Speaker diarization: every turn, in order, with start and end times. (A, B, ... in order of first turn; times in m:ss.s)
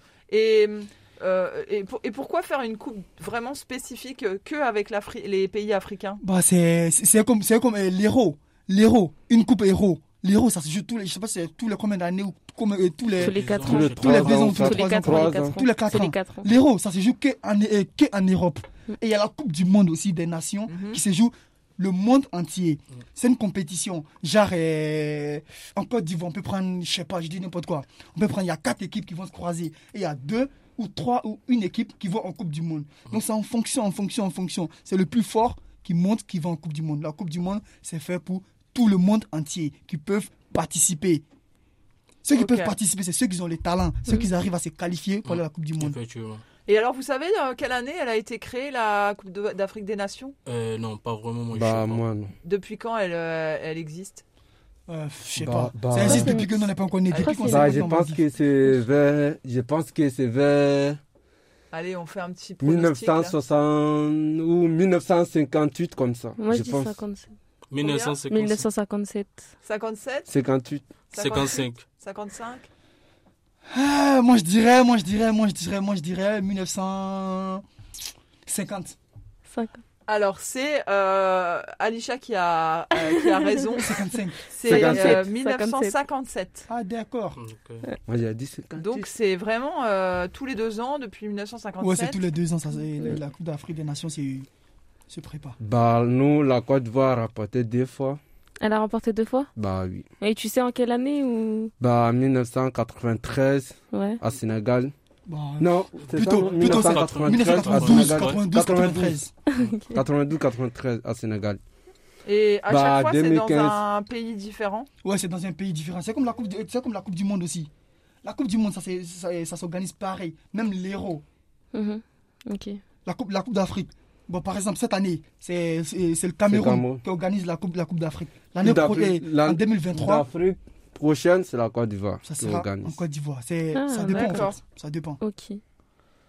0:00.3-0:06.2 A
0:06.2-0:41.2 B
0:13.2-0:14.3 C
0:13.2-0:16.5 D
0:13.6-0:15.6 E
0:20.7-0:21.0 A
0:42.2-0:46.0 B
0:42.3-0:42.7 A
0:45.2-0:46.4 C
0:46.6-0:50.3 A
0:50.4-0:52.0 C
0:51.5-0:52.3 E
0:52.4-0:54.2 A
0:54.9-0:58.2 B
0:55.4-0:56.5 E
0:56.0-0:56.5 D
0:57.1-0:57.4 A
0:57.1-0:57.8 D
0:57.4-1:01.0 E
1:01.7-1:03.3 A
1:02.6-1:06.9 E
1:06.4-1:07.3 D
1:07.7-1:08.6 C
1:07.8-1:08.2 A
1:08.3-1:09.4 D
1:09.6-1:10.3 A
1:10.3-1:10.9 E
1:11.1-1:12.7 A
1:11.1-1:11.8 C
1:13.7-1:17.6 B
1:18.4-1:19.0 B
1:19.5-1:19.8 D
1:20.1-1:26.6 A
1:23.8-1:25.0 B
1:24.6-1:25.2 E
1:24.6-1:26.0 D
1:26.7-1:27.4 B
1:27.4-1:27.8 C
1:28.1-1:29.0 E
1:28.8-1:32.2 A
1:31.8-1:34.5 B
1:35.1-1:35.6 B
1:35.6-1:38.2 E
1:38.6-1:39.5 D
1:39.6-1:40.0 E
1:40.2-1:41.7 D
1:41.8-1:44.9 E
1:43.9-1:44.2 D
1:45.3-1:49.3 B
1:45.6-1:49.2 E
1:46.3-1:48.4 C
1:49.5-1:50.0 D
1:49.9-1:51.6 E
1:52.2-1:54.9 A
1:52.7-1:53.8 E
1:55.0-1:57.7 B
1:58.2-2:01.2 B
2:01.7-2:02.8 D
2:03.0-2:10.2 B
2:06.4-2:07.0 E
2:08.6-2:13.0 E
2:12.2-2:15.2 B
2:13.7-2:14.5 D
2:14.1-2:14.6 A
2:15.2-2:15.6 D